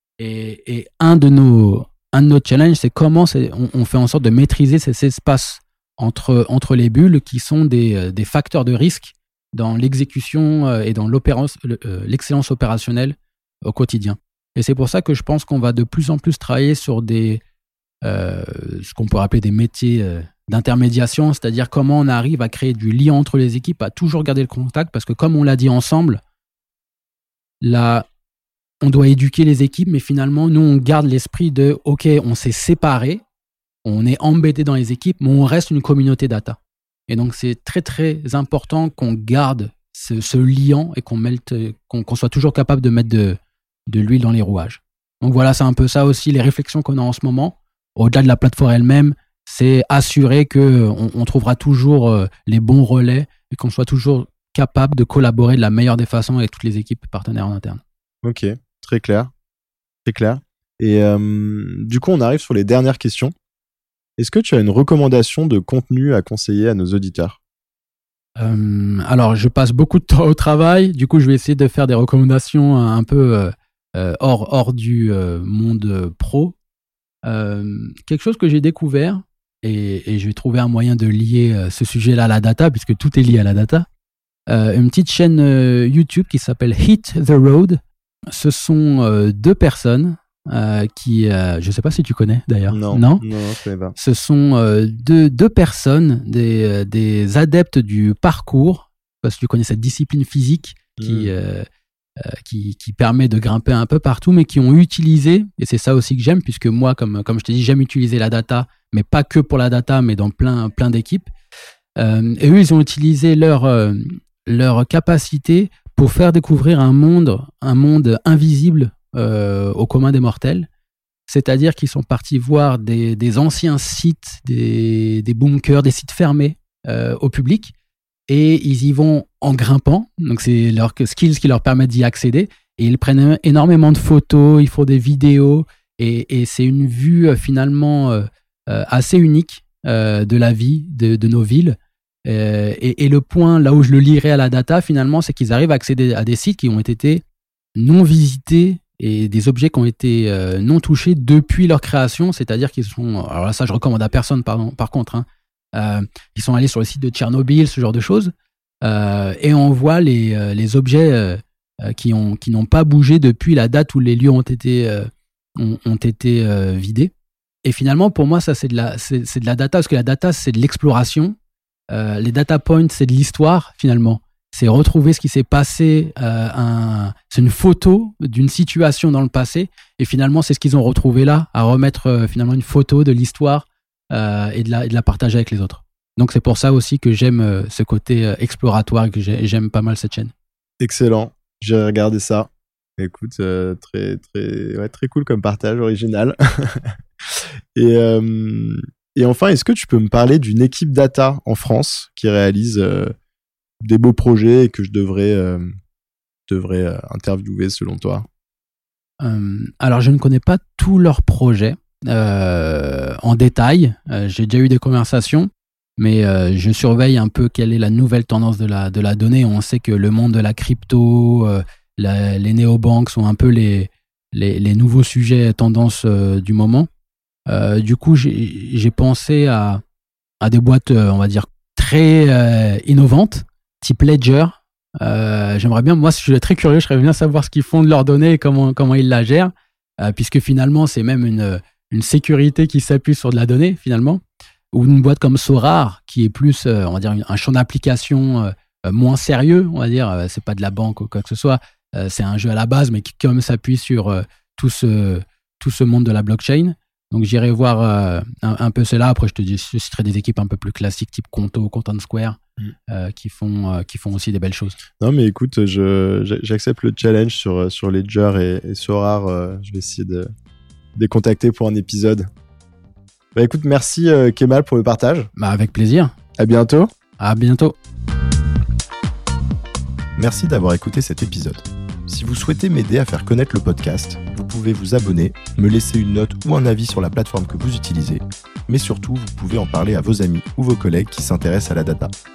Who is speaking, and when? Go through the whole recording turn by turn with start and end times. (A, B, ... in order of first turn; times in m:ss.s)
0:00.2-0:17.4 A
0:18.0-0:26.2 A
0:27.6-0:28.1 A
0:28.8-0:33.2 A
0:33.8-0:57.8 A
0:58.2-0:59.3 B
1:00.0-1:03.3 B
1:04.2-1:07.4 B
1:08.4-1:16.6 A
1:17.2-1:23.9 A
1:24.5-1:27.8 A
1:28.3-1:33.2 A
1:32.7-1:34.0 B
1:34.0-1:41.7 A
1:41.0-1:41.3 B
1:42.2-1:51.3 A
1:52.0-2:00.7 A
2:01.3-2:07.7 A
2:08.3-2:27.2 A
2:27.8-2:47.1 A
2:47.6-2:51.4 A
2:51.9-3:10.3 A
3:10.8-3:23.1 B
3:23.8-3:25.7 B
3:26.5-3:28.3 B
3:29.2-3:46.9 A
3:47.5-3:49.8 A
3:50.4-4:04.2 A
4:04.7-4:24.8 A
4:25.0-4:30.3 B
4:31.0-4:32.3 B
4:33.4-4:35.3 B
4:35.4-4:36.1 A
4:36.4-4:36.9 B
4:37.2-4:37.8 A
4:40.2-4:52.1 B